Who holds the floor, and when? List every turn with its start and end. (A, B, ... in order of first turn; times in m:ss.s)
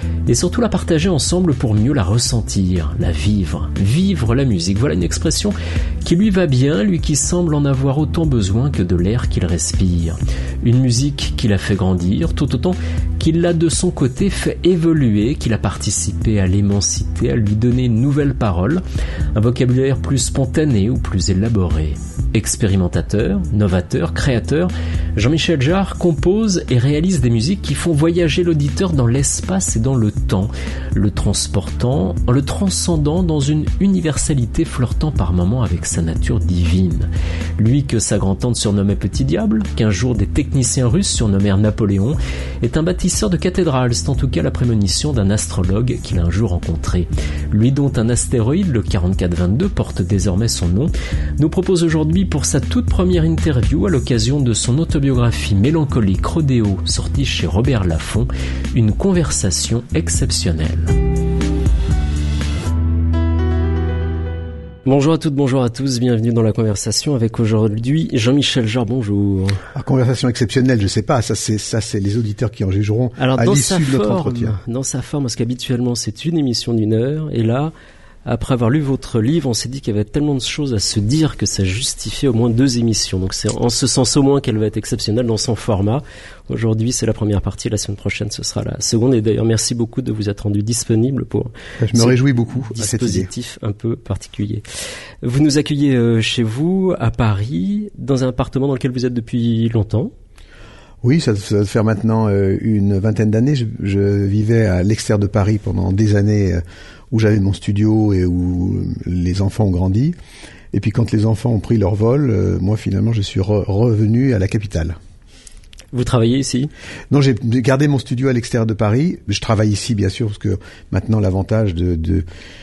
0:00.3-0:18.8 A
0:19.3-1:00.9 A
1:04.8-1:09.6 A
1:09.7-1:14.5 B
1:13.2-1:17.7 A
1:18.2-1:34.6 A
1:31.8-1:33.3 B
1:35.2-1:40.1 A
1:41.0-1:50.2 B
1:50.7-1:55.0 B
1:55.9-1:56.7 A
1:57.1-2:02.2 B